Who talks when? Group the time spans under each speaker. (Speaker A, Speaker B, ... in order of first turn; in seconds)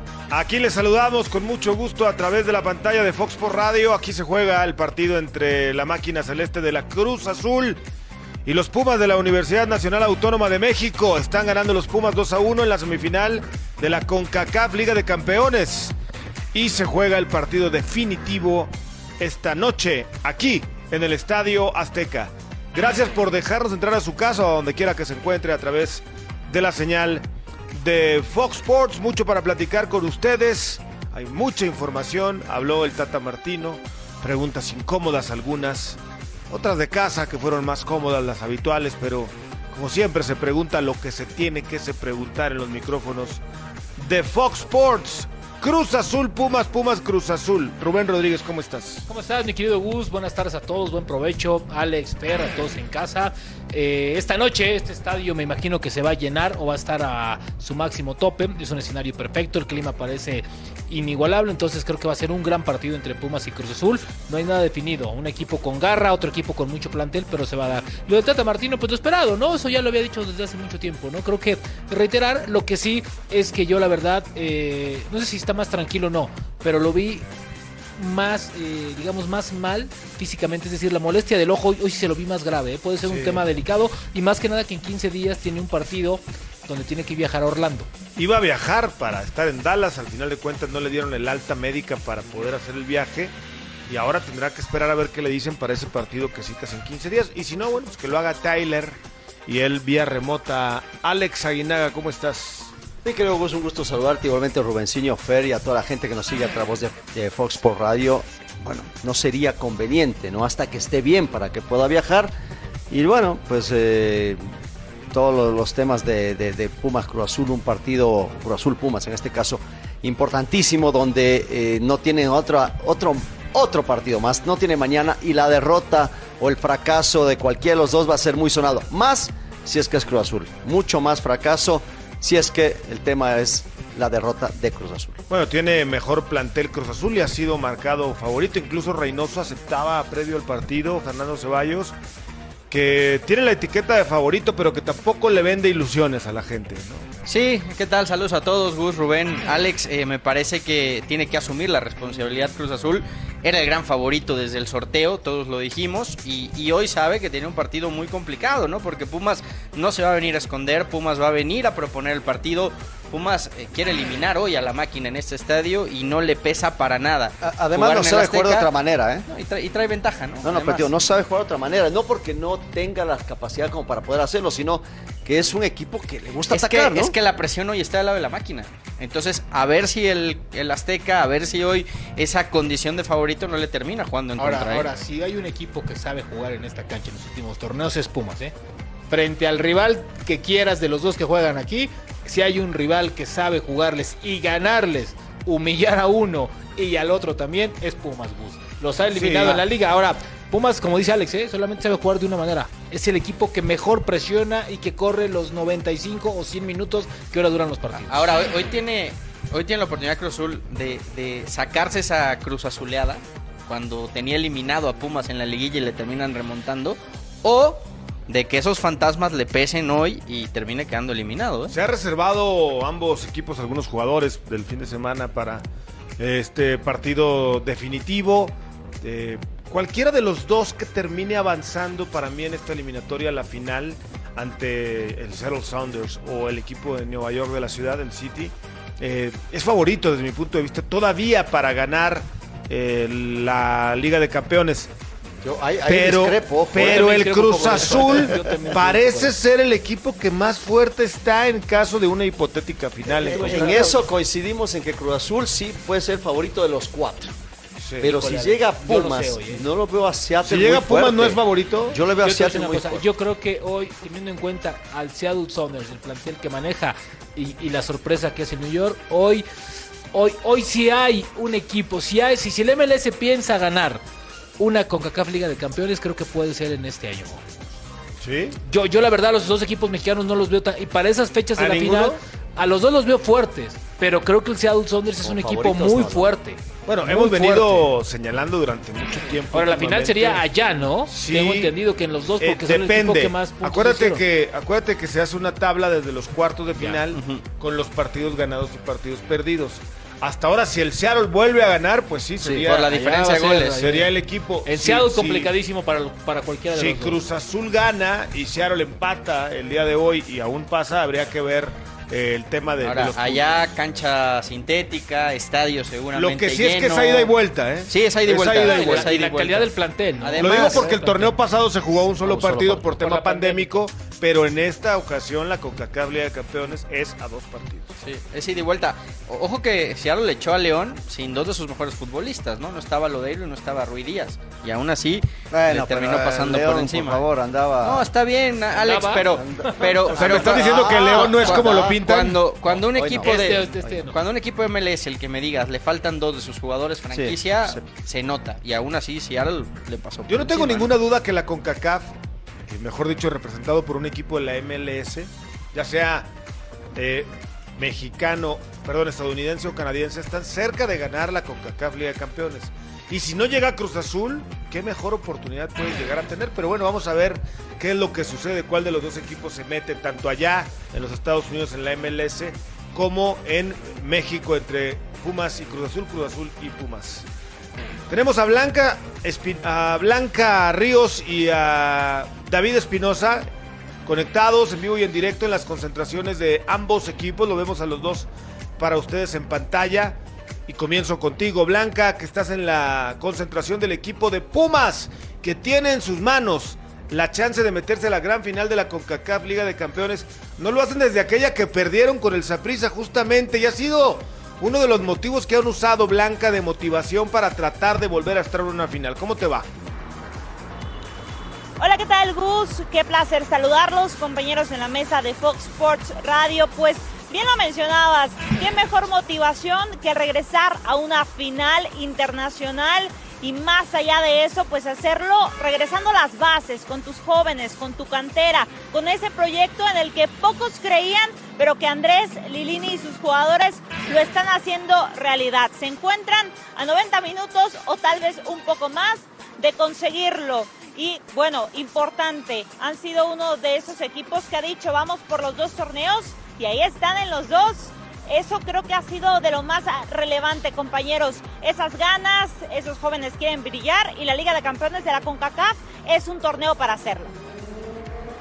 Speaker A: 0.3-7.8, 8.4-15.9, 16.5-36.0, 36.5-43.4, 44.0-49.0, 83.0-83.4, 88.2-93.3, 93.9-102.7, 135.3-142.0, 142.7-147.1, 199.1-199.6, 221.7-225.6, 226.2-244.9, 245.9-253.9, 257.8-258.1, 260.4-262.0, 278.2-278.6, 281.6-282.2, 286.9-290.4, 291.1-291.8, 292.4-305.5, 306.7-313.6, 316.1-319.1, 320.4-328.0, 340.1-342.4, 350.3-352.1, 352.7-356.3, 356.9-377.2, 378.1-383.5, 384.1-409.7
Speaker B: 49.1-77.2, 78.0-87.9, 184.4-188.5, 189.1-208.3, 246.8-249.3, 253.2-254.1, 258.0-259.6, 262.2-269.5, 270.1-274.0, 274.6-277.4, 278.6-287.9, 289.5-294.2, 302.4-304.1, 304.6-307.2, 318.6-321.3, 322.2-323.7, 338.8-340.4, 343.2-344.2
Speaker C: 103.0-112.3, 112.9-114.4, 115.1-135.2, 167.4-169.2, 170.4-177.1, 245.4-248.8, 253.1-257.3, 258.0-263.0, 285.2-286.4, 322.2-322.9, 335.5-338.1, 339.3-342.0, 342.9-344.0, 347.1-347.9
Speaker D: 147.3-168.7, 169.3-170.9, 176.5-184.9, 207.9-221.8, 297.1-297.4, 302.6-304.0, 312.8-317.3, 317.9-320.9, 328.0-337.3, 337.8-351.0
Speaker E: 411.8-457.3